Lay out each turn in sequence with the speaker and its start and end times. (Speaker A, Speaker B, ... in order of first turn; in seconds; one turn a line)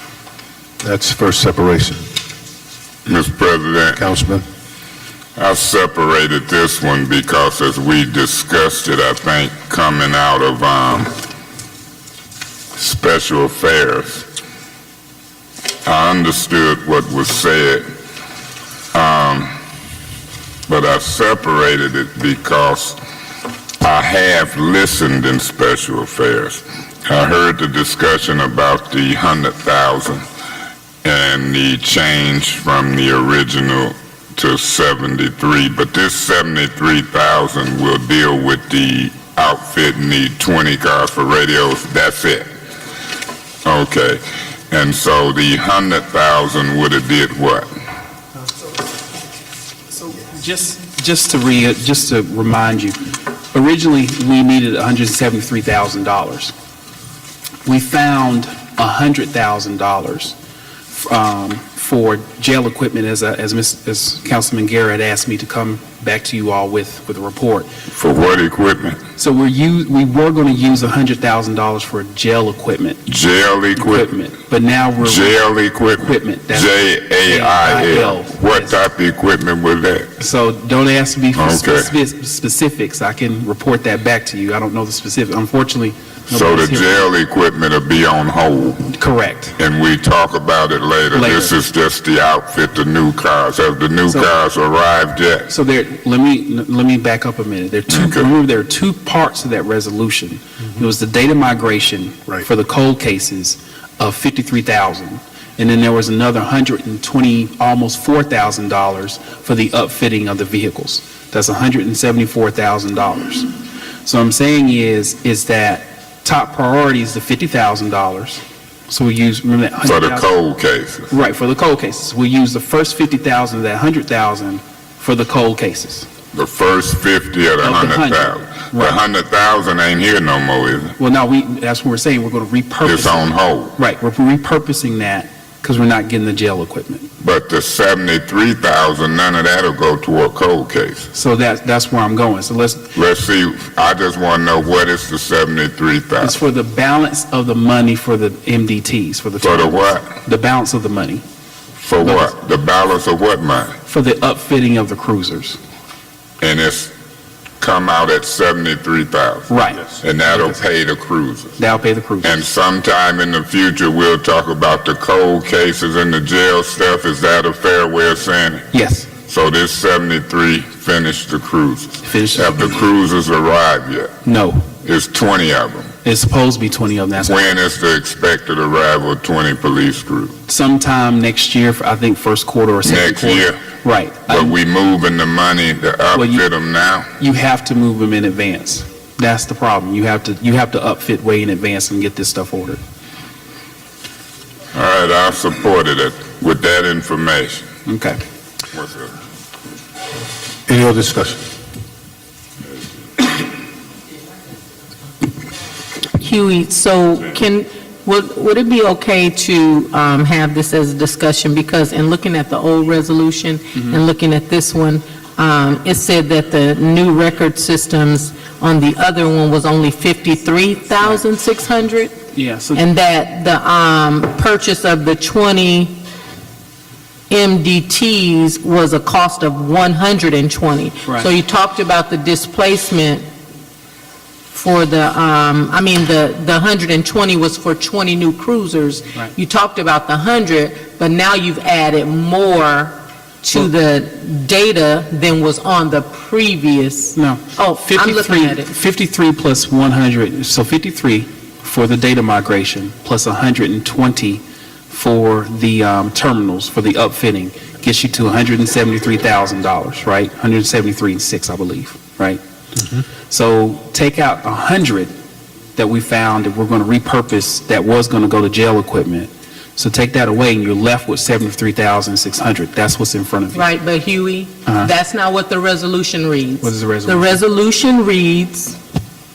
Speaker A: 0.8-2.0
Speaker B: 3.0-4.0
Speaker A: 4.0-4.4
Speaker B: 5.4-11.1
Speaker B: 12.8-14.2
Speaker B: 15.8-17.8
Speaker B: 18.9-19.5
Speaker B: 20.7-23.0
Speaker B: 23.8-30.2
Speaker B: 31.0-42.5
Speaker B: 43.6-47.7
Speaker C: 49.9-53.0
Speaker C: 53.5-56.5
Speaker C: 57.6-60.3
Speaker C: 60.9-67.7
Speaker B: 67.9-69.0
Speaker C: 69.2-73.0
Speaker B: 73.1-74.1
Speaker C: 73.8-75.4
Speaker B: 75.0-80.1
Speaker C: 76.0-78.8
Speaker C: 80.2-87.1
Speaker B: 81.3-81.9
Speaker B: 86.3-88.9
Speaker C: 88.9-89.5
Speaker B: 89.6-95.5
Speaker C: 91.1-91.5
Speaker C: 95.5-113.5
Speaker B: 97.9-98.2
Speaker C: 114.0-120.3
Speaker B: 119.8-121.1
Speaker C: 121.1-126.1
Speaker B: 126.3-130.9
Speaker C: 127.6-129.0
Speaker C: 131.0-137.1
Speaker B: 132.8-133.7
Speaker B: 137.2-141.1
Speaker C: 141.1-142.9
Speaker B: 142.9-146.4
Speaker C: 146.2-151.2
Speaker B: 149.4-150.1
Speaker B: 151.8-153.7
Speaker C: 152.0-152.3
Speaker C: 153.9-155.6
Speaker B: 156.4-156.9
Speaker B: 157.6-161.6
Speaker C: 159.5-160.0
Speaker C: 161.6-162.3
Speaker B: 162.2-168.7
Speaker C: 168.7-169.1
Speaker B: 169.3-174.1
Speaker C: 172.0-172.8
Speaker C: 174.2-174.7
Speaker B: 174.8-175.9
Speaker C: 176.0-177.5
Speaker B: 177.2-180.3
Speaker C: 180.5-184.5
Speaker B: 182.8-183.6
Speaker B: 184.3-187.1
Speaker C: 186.1-186.4
Speaker C: 187.2-192.8
Speaker B: 194.7-197.7
Speaker C: 197.8-198.2
Speaker B: 198.7-199.1
Speaker A: 200.7-201.4
Speaker D: 206.2-222.2
Speaker C: 213.7-214.0
Speaker C: 222.3-222.8
Speaker D: 222.7-226.0
Speaker D: 227.3-233.2
Speaker D: 234.5-248.7
Speaker C: 247.2-262.4
Speaker C: 263.3-265.1
Speaker C: 265.7-273.6
Speaker D: 273.5-278.8
Speaker C: 276.6-277.4